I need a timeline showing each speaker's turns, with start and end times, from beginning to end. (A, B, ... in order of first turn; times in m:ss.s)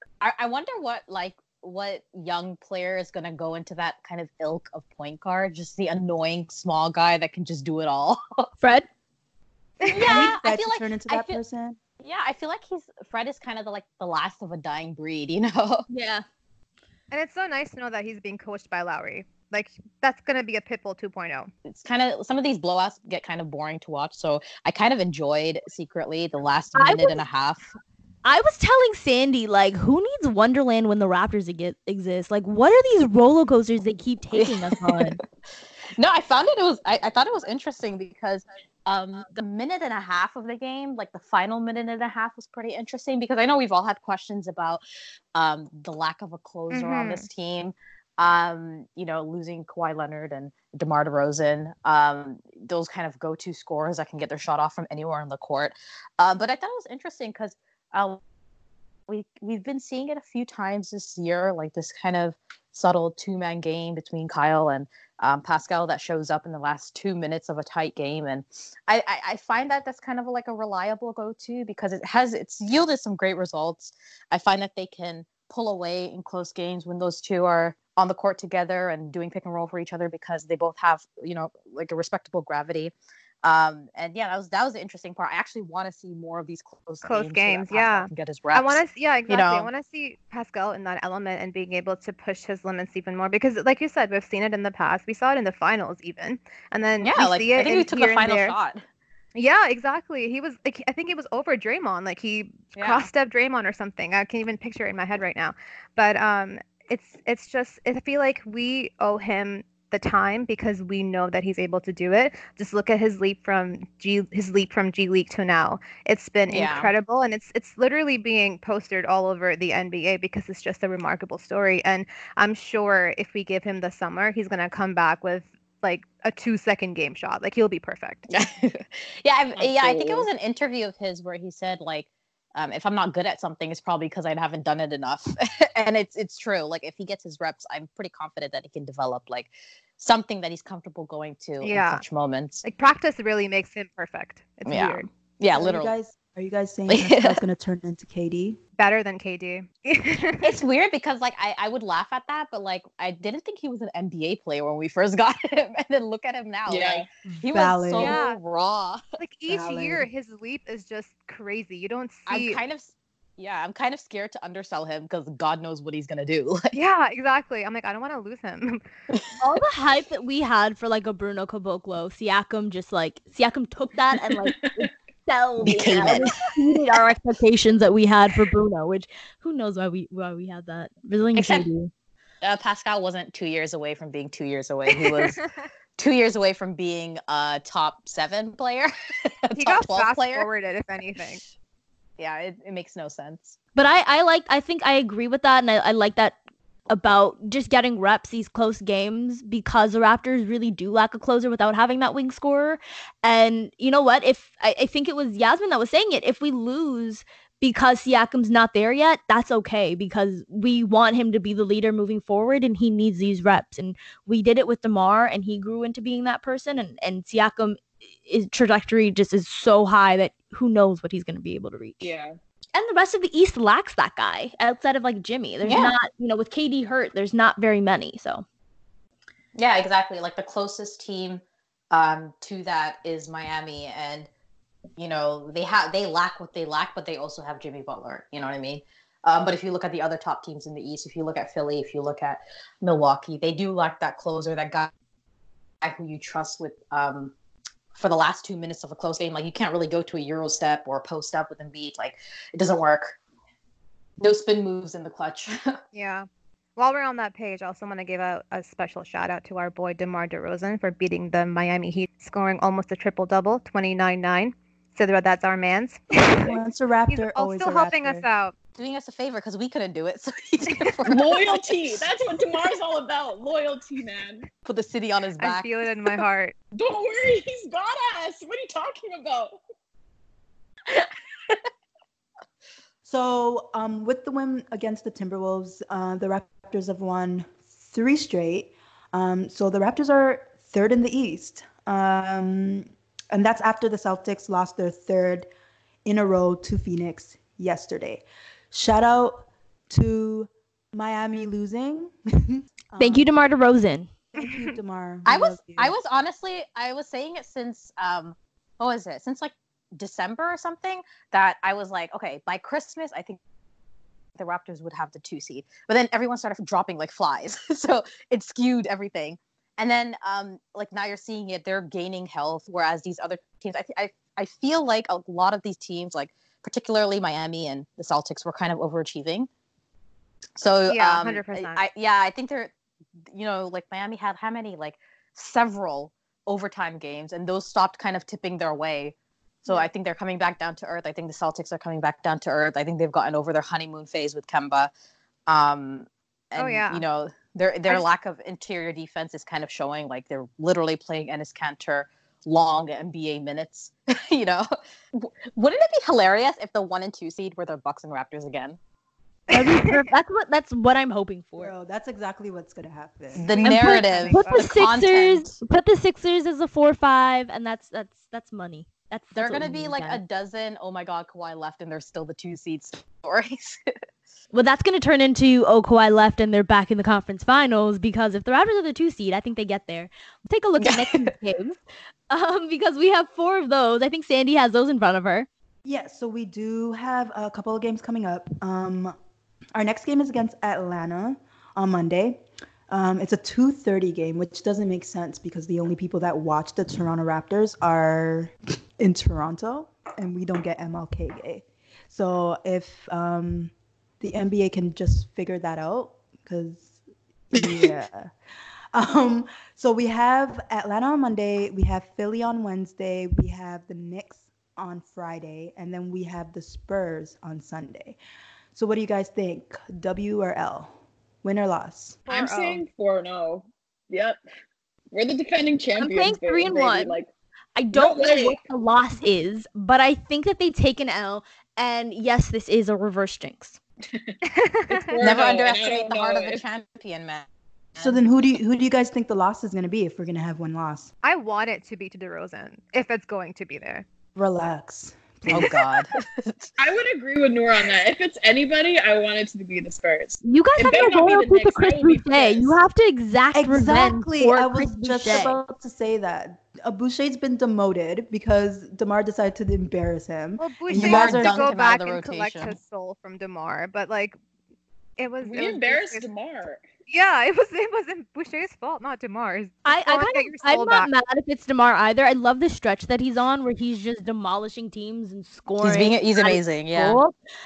0:00.2-0:08.5 A
0:08.6-0:08.9 B
0:09.8-0:10.3 C
0:09.8-0:11.4 A
0:10.0-0:11.8 D
0:12.0-0:15.9 A
0:15.9-0:16.2 B
0:17.1-0:21.5 C
0:21.7-0:27.6 A
0:26.8-0:27.2 B
0:28.2-0:35.2 B
0:36.0-0:44.8 A
0:45.4-0:58.2 A
0:46.7-0:47.3 C
0:59.1-1:22.9 A
1:23.4-1:29.7 A
1:27.0-1:38.6 C
1:37.0-1:38.8 A
1:39.4-2:08.3 C
1:42.8-1:43.1 A
1:56.5-1:56.9 A
2:08.3-2:22.6 A
2:09.6-2:10.3 E
2:21.6-2:22.0 C
2:22.6-2:25.1 C
2:24.7-2:25.9 A
2:25.5-2:28.6 D
2:26.9-2:27.4 A
2:28.8-2:30.6 C
2:30.4-2:39.0 A
2:36.7-2:37.1 E
2:37.2-2:38.2 D
2:38.0-2:38.4 C
2:39.2-2:42.6 C
2:39.5-2:40.1 D
2:42.3-2:46.8 A
2:46.7-2:48.8 C
2:49.4-3:01.9 B
2:54.4-2:54.9 E
2:55.6-2:56.4 A
3:01.4-3:01.6 A
3:02.4-3:05.4 A
3:04.9-3:05.4 C
3:06.0-3:08.9 A
3:09.4-3:10.5 A
3:09.6-3:11.4 C
3:12.2-3:13.6 A
3:13.8-3:16.4 B
3:16.9-3:42.1 B
3:42.0-3:42.4 E
3:42.7-3:48.5 B
3:45.6-3:45.9 A
3:49.6-3:54.3 A
3:55.0-4:04.9 A
4:05.8-4:07.3 A
4:07.9-4:13.2 A
4:14.2-4:15.8 A
4:15.9-4:26.6 C
4:26.2-4:28.2 D
4:27.1-4:28.5 C
4:28.8-4:31.6 A
4:31.0-4:34.5 E
4:34.6-4:36.1 A
4:35.4-4:36.5 C
4:36.8-4:39.6 E
4:40.9-4:41.6 A
4:43.0-4:55.5 D
4:56.0-5:03.3 D
5:03.0-5:04.1 B
5:04.4-5:06.0 D
5:04.4-5:04.8 C
5:05.3-5:13.4 A
5:14.4-5:29.5 A
5:30.6-5:32.7 A
5:30.9-5:31.8 C
5:33.3-5:44.9 A
5:45.5-5:58.8 A
5:46.6-5:47.0 C
5:59.5-6:01.7 B
6:01.6-6:03.6 D
6:03.4-6:05.5 A
6:03.4-6:04.7 C
6:03.6-6:10.2 B
6:09.4-6:13.8 A
6:14.5-6:25.5 B
6:20.8-6:21.2 A
6:25.8-6:29.2 D
6:29.8-6:47.0 D
6:47.5-6:48.3 D
6:47.6-6:47.9 A
6:48.9-6:58.2 D
6:58.7-7:02.2 D
7:02.3-7:02.8 C
7:02.3-7:04.4 E
7:05.1-7:07.3 E
7:06.0-7:07.2 B
7:07.8-7:13.8 B
7:07.9-7:08.6 E
7:14.1-7:14.4 E
7:14.5-7:15.2 C
7:14.9-7:16.6 E
7:15.2-7:18.2 A
7:18.0-7:21.1 D
7:21.2-7:24.0 C
7:24.4-7:25.8 D
7:25.5-7:26.7 A
7:26.8-7:32.8 E
7:30.4-7:35.6 B
7:33.5-7:41.7 D
7:40.6-7:44.4 C
7:41.0-7:42.7 A
7:45.2-7:46.3 C
7:45.4-7:46.8 E
7:47.1-7:51.1 C
7:49.9-7:57.3 B
7:55.8-7:57.2 A